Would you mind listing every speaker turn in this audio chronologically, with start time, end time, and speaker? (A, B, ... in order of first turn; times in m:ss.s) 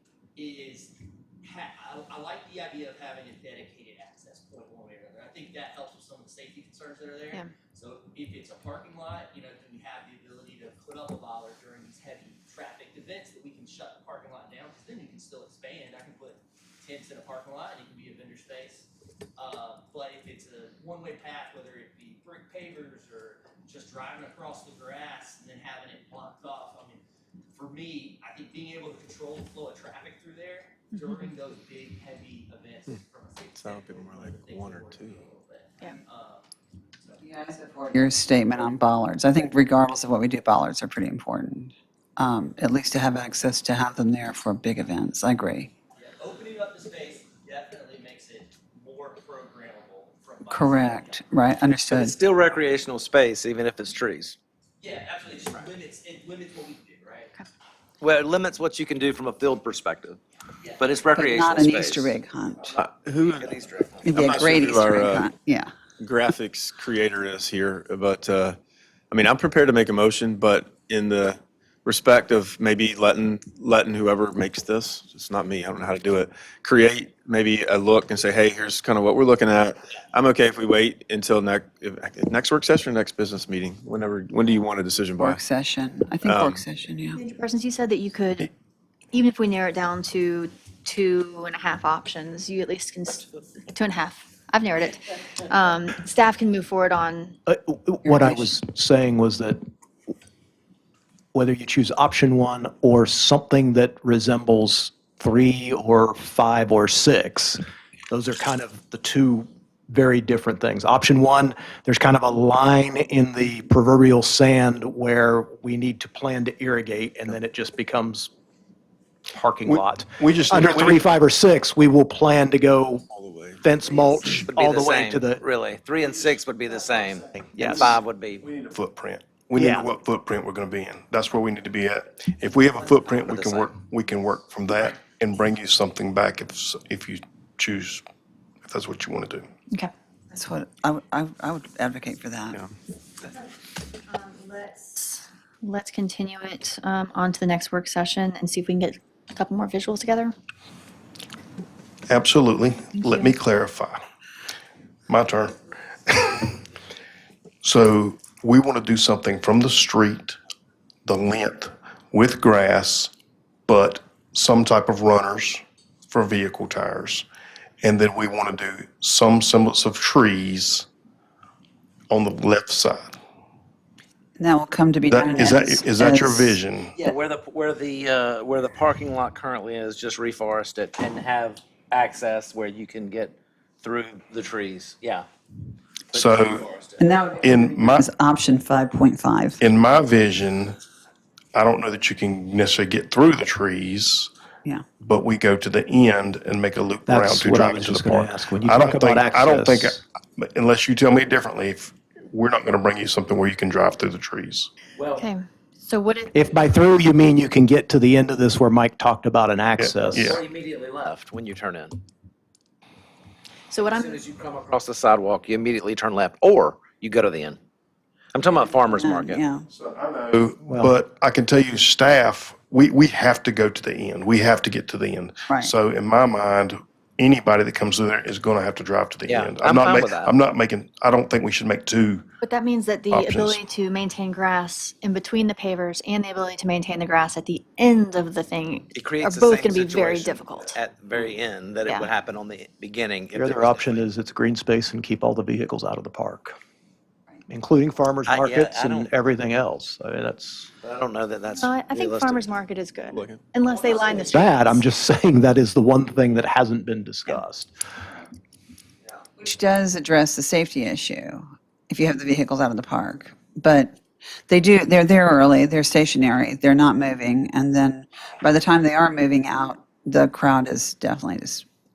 0:00.4-0:27.0 A
0:27.5-0:37.3 A
0:30.9-0:31.2 B
0:33.6-0:35.3 C
0:37.2-0:45.7 D
0:46.0-0:51.2 A
0:50.5-0:52.2 D
0:52.0-0:54.4 E
0:54.8-0:57.4 A
0:58.0-1:00.2 E
1:00.8-1:02.1 E
1:01.2-1:02.8 D
1:02.8-1:05.3 C
1:03.4-1:04.1 E
1:04.0-1:05.7 D
1:06.0-1:08.6 C
1:09.1-1:25.4 C
1:25.2-1:27.2 D
1:26.2-1:26.6 C
1:27.2-1:28.5 B
1:29.1-1:37.3 B
1:37.5-1:39.6 F
1:38.1-1:38.5 D
1:41.3-1:58.3 F
1:59.3-2:03.0 F
1:59.6-2:01.0 G
2:03.1-2:03.7 C
2:03.6-2:05.5 F
2:04.8-2:07.2 E
2:07.3-2:08.1 F
2:08.0-2:08.4 E
2:08.5-2:18.0 G
2:09.6-2:09.9 F
2:13.3-2:13.7 E
2:18.6-2:19.5 G
2:20.3-2:22.6 D
2:24.1-2:30.3 B
2:32.1-2:34.0 G
2:32.9-2:33.4 B
2:35.1-2:36.5 G
2:37.6-2:40.4 G
2:41.0-2:43.1 G
2:43.7-2:47.3 G
2:47.8-2:50.9 G
2:52.1-2:53.2 G
2:54.4-2:56.6 D
2:55.1-2:57.0 G
2:57.0-3:05.2 E
3:06.1-3:06.6 G
3:06.2-3:07.0 E
3:07.0-3:09.6 D
3:07.4-3:08.1 G
3:09.6-3:10.8 G
3:11.5-3:14.3 G
3:15.0-3:24.7 G
3:17.1-3:20.0 F
3:25.0-3:25.2 E
3:25.2-3:26.5 B
3:26.3-3:30.4 F
3:29.8-3:30.4 G
3:30.3-3:32.0 E
3:33.7-3:34.2 B
3:33.9-3:37.6 E
3:38.3-3:39.4 E
3:39.0-3:39.7 D
3:39.7-3:52.2 G
3:40.6-3:41.0 F
3:49.3-3:50.3 E
3:52.4-4:00.8 B
3:53.1-3:53.6 G
3:59.0-4:04.0 E
4:01.8-4:02.1 B
4:03.3-4:06.6 F
4:07.5-4:10.7 F
4:08.3-4:09.1 E
4:10.8-4:12.5 E
4:11.5-4:14.8 B
4:13.1-4:13.4 C
4:14.3-4:17.7 F
4:19.4-4:31.7 D